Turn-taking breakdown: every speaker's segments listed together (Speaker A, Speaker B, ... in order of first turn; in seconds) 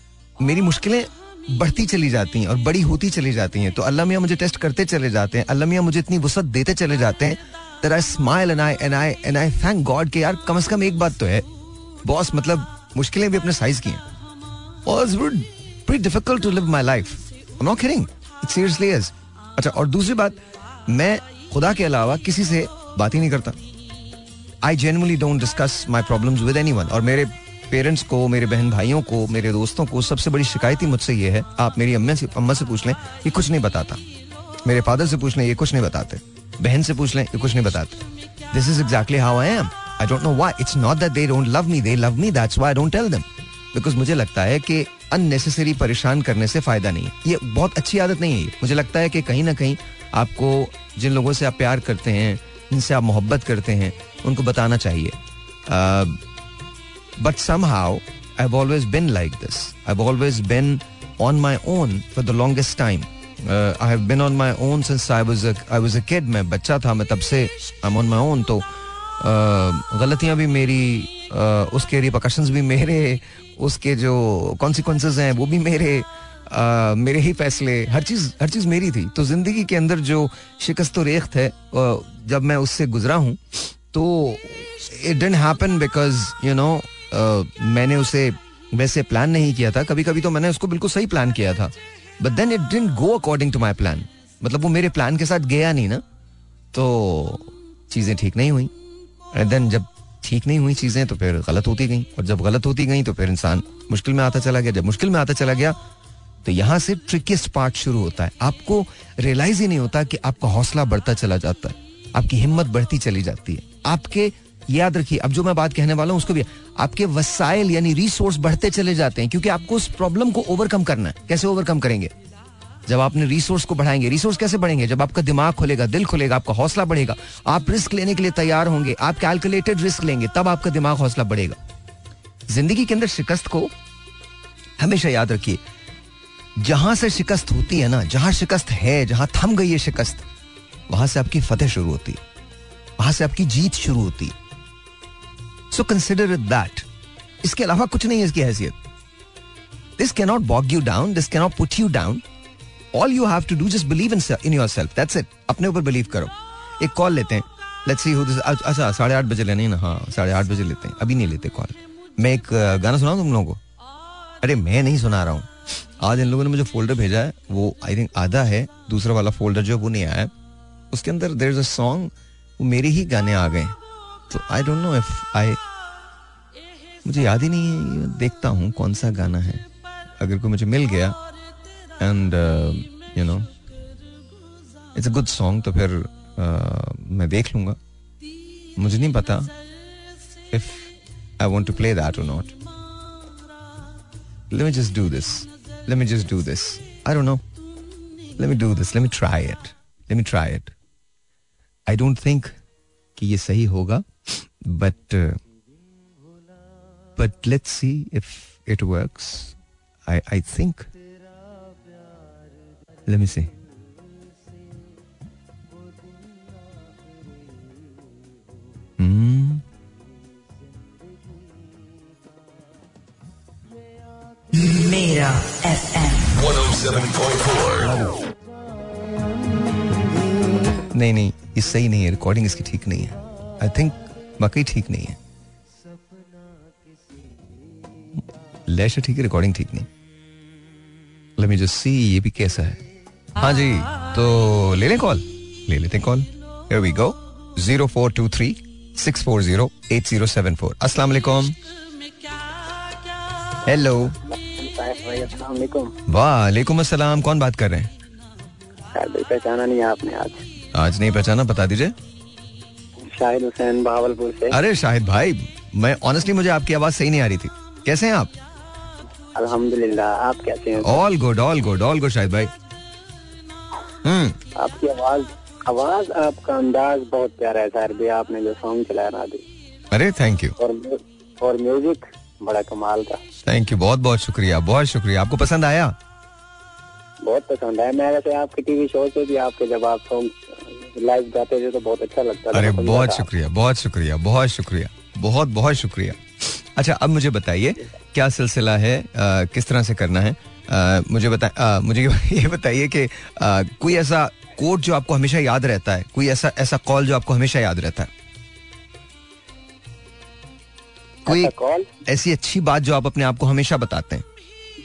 Speaker A: 0.4-11.4, 12.0-14.0, 14.8-23.6, 24.6-34.0, 34.6-56.2, 57.2-68.6, 69.2-96.0, 96.7-98.7, 99.3-105.8, 106.4-122.1, 122.9-131.6, 132.5-133.7, 134.8-135.6, 136.6-140.2, 140.9-142.2, 143.0-144.3, 145.7-146.8, 147.4-148.8, 150.0-152.2, 152.9-163.6, 164.4-170.3, 170.9-173.8, 174.3-175.6, 177.0-179.6, 180.2-181.2, 182.0-183.5, 184.9-187.8, 188.8-189.5, 190.5-192.5, 194.5-197.4, 198.4-200.7, 201.9-202.6, 203.2-205.4, 207.2-209.5, 210.1-210.9, 213.1-213.5, 219.0-219.6, 227.8-228.2, 230.8-235.2, 238.7-239.9, 241.4-242.8, 243.4-251.6, 253.6-254.1, 256.1-257.9, 260.7-261.9, 264.5-268.3, 270.8-272.5, 274.0-274.4, 279.9-280.6, 283.4-285.9, 292.5-308.1, 311.3-311.5, 312.1-314.2
Speaker B: 224.5-227.9
Speaker C: 254.4-255.9, 258.9-260.4, 262.9-264.6, 269.3-271.0, 274.5-279.4, 280.6-283.2, 287.2-293.3, 311.2-311.9